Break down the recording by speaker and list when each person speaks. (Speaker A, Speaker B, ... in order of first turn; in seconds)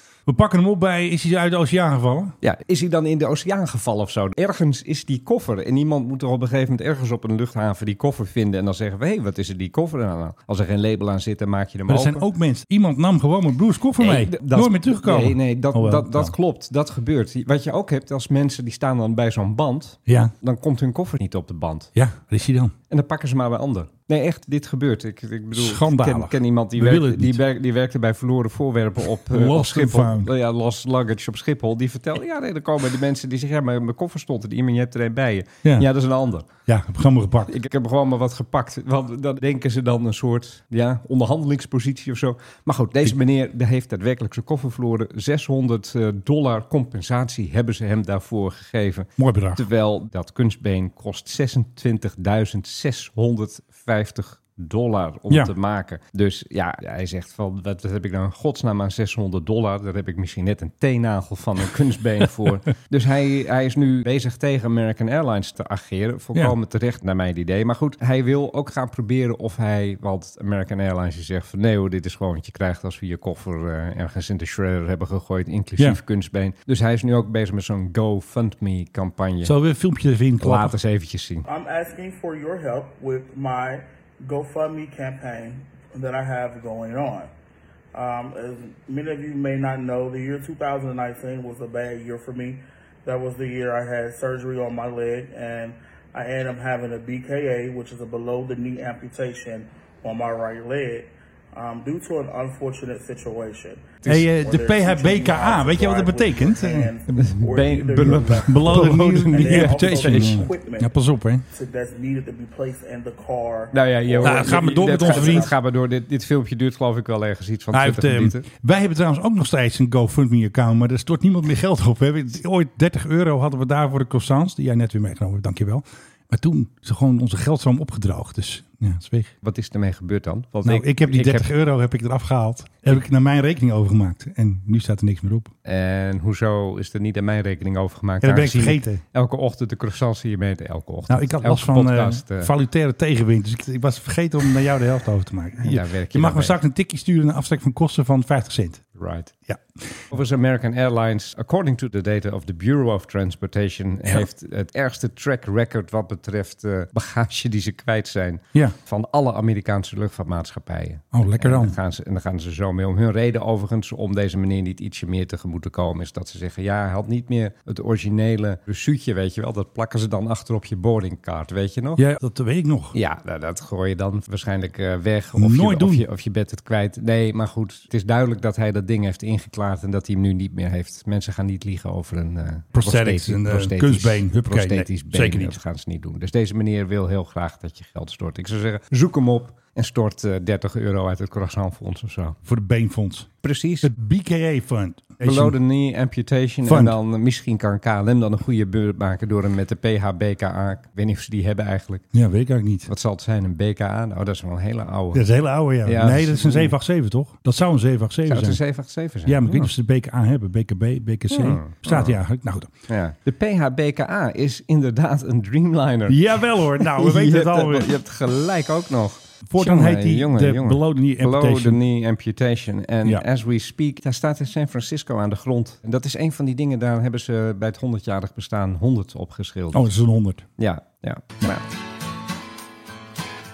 Speaker A: 0.2-2.3, 11.9-16.3, 20.1-20.3, 21.9-22.7, 25.5-27.4, 29.1-30.3, 36.7-37.5, 49.2-49.6, 79.4-80.8, 104.0-106.9, 108.0-111.4, 114.2-115.5, 117.7-129.3, 130.6-135.5, 138.2-139.0, 141.1-148.8, 161.1-161.8, 172.0-172.9, 175.3-176.1, 182.7-185.6, 192.4-193.3, 193.8-195.6, 196.7-197.0, 202.1-202.9, 205.1-208.6, 209.2-212.7, 216.1-217.9, 219.4-221.8, 229.7-230.5
Speaker B: 2.4-12.3, 14.0-21.9, 22.9-36.5, 37.5-79.5, 80.4-81.5, 107.1-110.5, 113.7-118.4, 129.4-131.5, 135.6-142.5, 145.6-146.6, 149.0-149.3, 150.1-172.0, 172.9-192.4, 193.4-193.9, 195.2-202.0, 202.9-205.2, 205.8-206.8, 208.3-209.7, 211.3-212.2, 212.9-229.9, 230.6-231.6
Speaker C: 81.5-87.3, 87.9-115.5